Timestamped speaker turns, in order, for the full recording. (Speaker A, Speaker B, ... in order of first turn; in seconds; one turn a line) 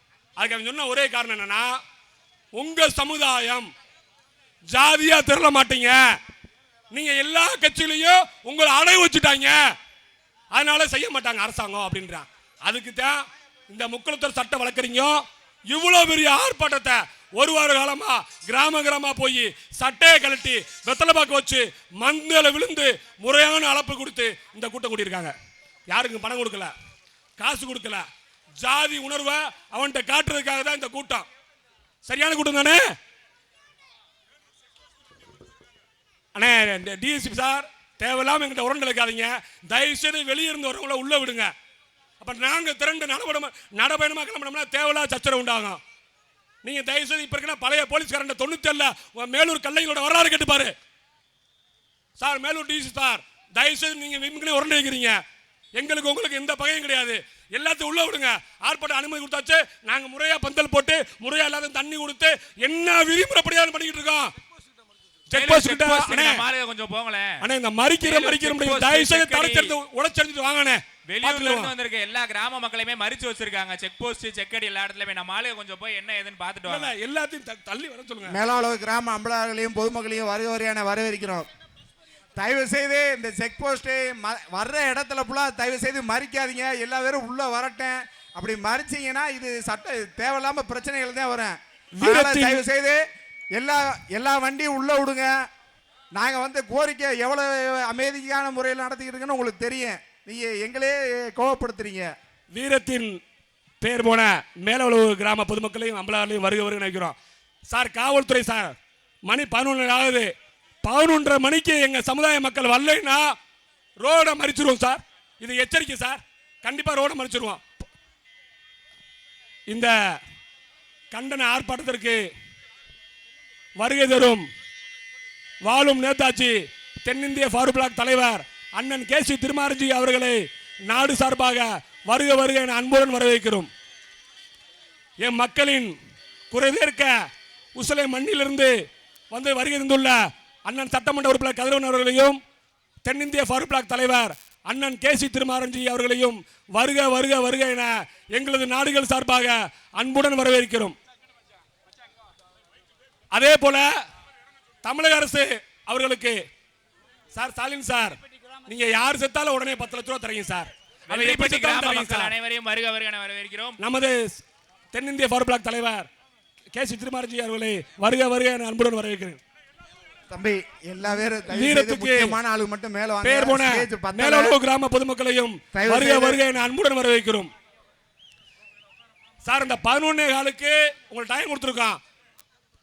Speaker A: 0.4-1.7
Speaker A: 2.5-3.7
Speaker A: 4.7-6.0
Speaker A: 6.9-9.6
Speaker A: 10.5-25.3
Speaker A: 25.9-26.7
Speaker A: 27.4-28.1
Speaker A: 28.6-31.2
Speaker A: 32.0-32.8
Speaker A: 36.3-41.5
Speaker A: 42.2-45.8
Speaker A: 46.6-50.7
Speaker A: 52.2-55.2
Speaker A: 55.8-64.3
Speaker A: 65.3-66.4
Speaker B: 65.3-67.4
Speaker A: 67.4-71.7
Speaker B: 68.0-69.7
Speaker B: 71.0-76.9
Speaker A: 76.7-78.4
Speaker C: 78.3-81.5
Speaker C: 82.4-93.0
Speaker A: 92.0-92.6
Speaker C: 93.5-95.3
Speaker C: 96.1-102.1
Speaker A: 102.5-103.2
Speaker A: 103.8-107.1
Speaker A: 107.7-108.7
Speaker A: 109.2-110.3
Speaker A: 110.8-113.2
Speaker A: 114.0-117.6
Speaker A: 121.1-122.2
Speaker A: 123.8-124.4
Speaker A: 125.6-133.7
Speaker A: 135.2-135.9
Speaker A: 136.5-137.1
Speaker A: 137.8-138.7
Speaker A: 139.3-142.4
Speaker A: 143.0-150.9
Speaker A: 153.3-153.9
Speaker A: 154.8-156.4
Speaker A: 157.3-162.3
Speaker B: 161.1-163.8
Speaker A: 163.8-164.2
Speaker A: 164.9-166.1
Speaker A: 166.7-169.4
Speaker C: 170.3-174.5
Speaker A: 171.1-172.3
Speaker A: 173.2-177.5
Speaker C: 175.7-176.4
Speaker A: 179.4-182.0